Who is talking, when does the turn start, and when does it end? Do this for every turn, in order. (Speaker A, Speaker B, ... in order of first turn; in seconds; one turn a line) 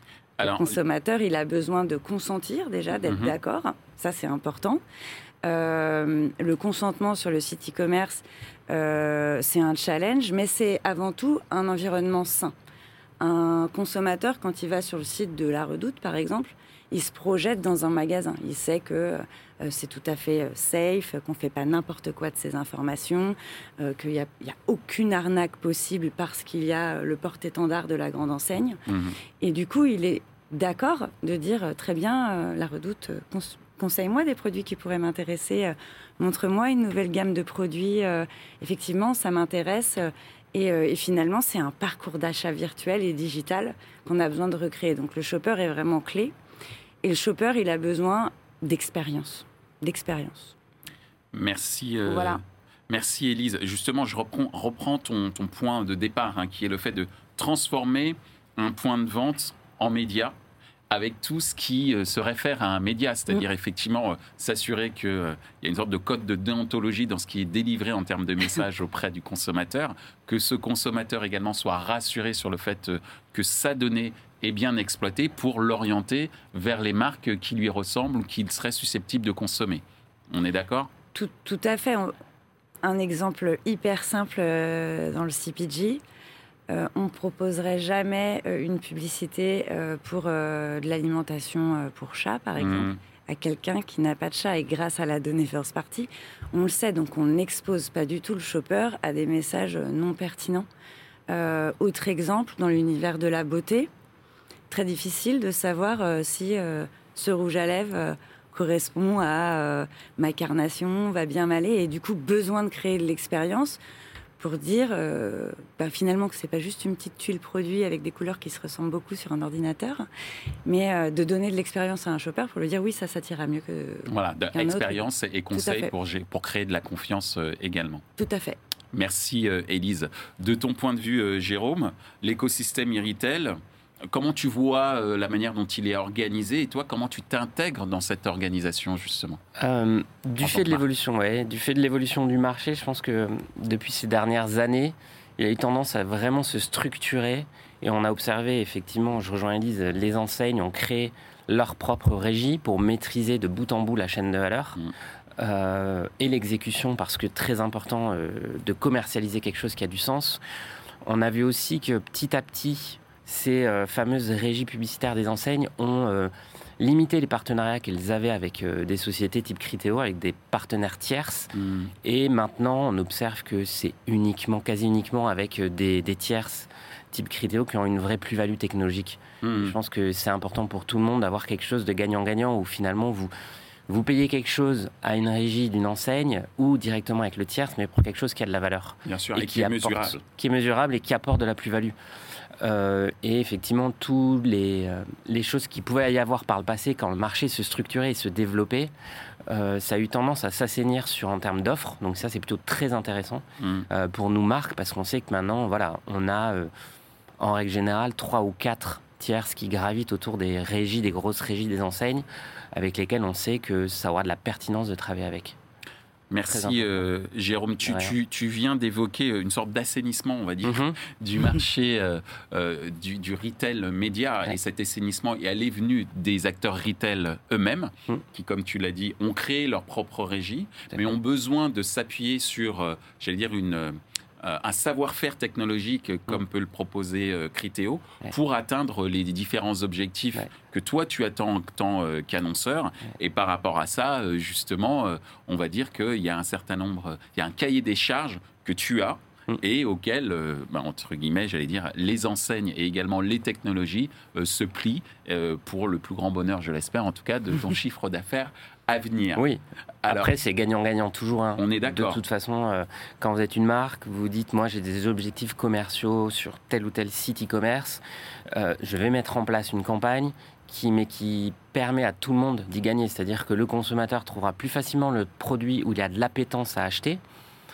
Speaker A: 0.4-0.7
Speaker B: 0.4-4.8
Speaker A: 3.0-3.3
Speaker B: 5.4-12.5
Speaker B: 13.2-28.8
Speaker A: 28.9-29.1
Speaker B: 29.4-46.3
Speaker B: 47.0-50.5
Speaker A: 51.3-60.3
Speaker B: 52.0-52.4
Speaker A: 60.9-80.9
Speaker B: 81.1-82.1
Speaker B: 82.8-86.0
Speaker B: 86.7-100.7
Speaker A: 92.6-93.0
Speaker B: 101.3-103.9
Speaker B: 104.7-113.8
Speaker B: 114.4-120.1
Speaker B: 120.6-125.0
Speaker A: 124.1-128.0
Speaker B: 125.5-125.9
Speaker B: 128.2-128.6
Speaker A: 128.9-139.4
Speaker C: 139.6-154.8
Speaker A: 140.4-140.8
Speaker C: 155.4-160.4
Speaker C: 161.0-171.5
Speaker A: 171.5-171.9
Speaker C: 172.0-183.3
Speaker A: 179.4-179.7
Speaker C: 183.9-191.9
Speaker A: 189.1-190.2
Speaker C: 192.6-198.9
Speaker C: 199.5-206.7
Speaker A: 203.6-203.9
Speaker C: 207.4-215.6
Speaker A: 216.3-259.4
Speaker C: 216.5-217.0
Speaker C: 217.9-218.1
Speaker C: 220.6-221.0
Speaker C: 259.4-277.2
Speaker A: 260.0-260.3
Speaker A: 261.6-262.2